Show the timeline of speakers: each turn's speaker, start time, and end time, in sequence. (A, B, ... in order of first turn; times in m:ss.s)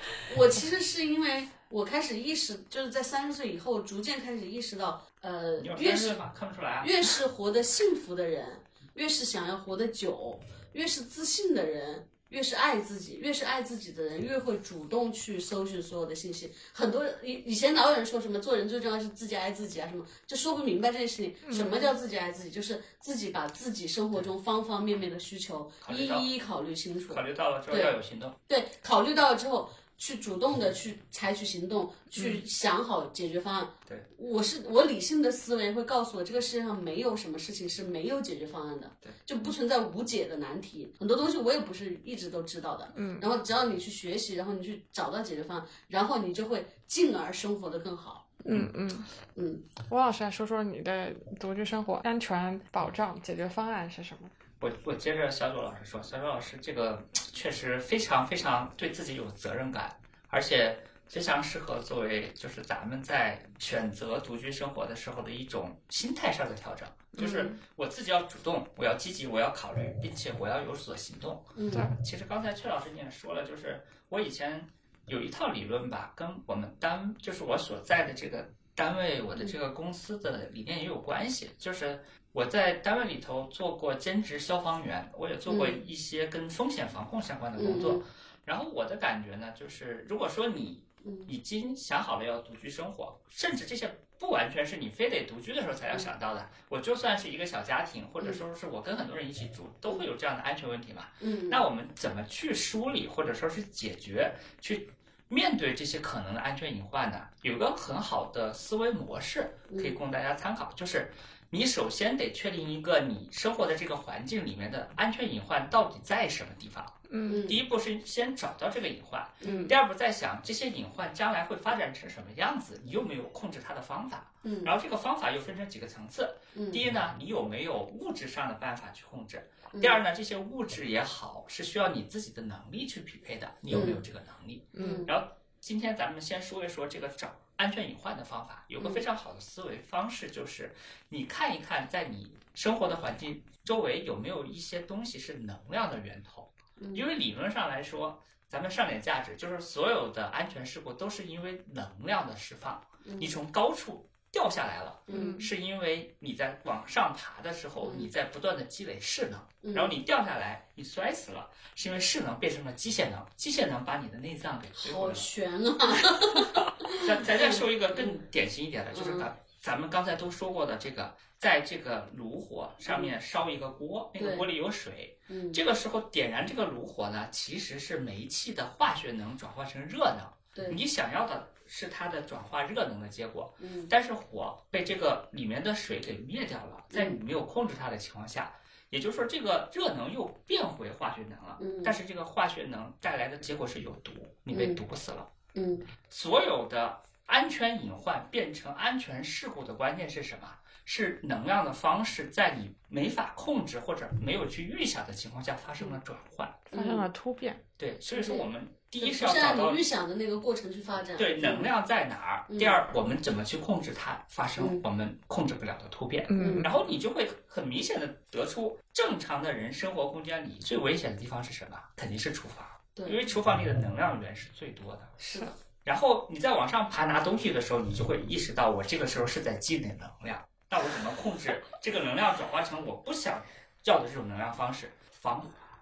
0:00.2-0:06.2 A
0:05.6-0:07.1 B
0:06.8-0:48.3 A
0:21.4-0:21.9 C
0:25.8-0:26.3 B
0:27.1-0:28.4 B
0:43.0-0:43.3 C
0:48.4-0:49.1 C
0:49.4-0:49.6 A
0:49.9-0:54.3 C
0:54.6-2:45.3 B
1:07.1-1:07.6 C
1:11.6-1:11.9 A
1:25.5-1:25.8 A
1:27.6-1:28.0 A
1:31.0-1:31.3 A
1:41.2-1:41.6 A
1:49.7-1:50.0 A
1:57.1-1:57.4 C
1:57.2-1:57.6 A
1:59.4-1:59.8 A
2:04.4-2:04.7 A
2:06.5-2:06.8 A
2:09.7-2:10.0 A
2:13.7-2:14.0 A
2:14.7-2:15.1 C
2:14.8-2:15.1 A
2:18.8-2:19.0 A
2:26.8-2:27.1 A
2:33.0-2:33.4 A
2:35.1-2:35.4 A
2:35.1-2:35.5 C
2:37.8-2:38.1 A
2:39.6-2:40.0 A
2:44.8-2:48.2 A
2:47.0-3:15.3 B
2:48.9-2:49.3 A
2:52.9-2:53.1 A
2:54.2-2:54.5 A
2:55.3-2:55.6 A
3:00.6-3:00.8 A
3:03.6-3:03.9 A
3:06.9-3:07.2 A
3:11.6-3:12.0 A
3:14.5-3:14.8 A
3:15.6-3:15.9 A
3:16.1-3:26.6 B
3:26.7-3:27.1 A
3:26.7-3:27.6 C
3:27.8-3:29.8 B
3:28.1-3:31.7 A
3:31.2-3:45.2 B
3:32.5-3:32.8 A
3:34.6-3:34.8 A
3:36.3-3:36.7 C
3:36.4-3:36.7 A
3:43.0-3:43.2 A
3:45.2-3:45.5 C
3:45.8-3:55.6 B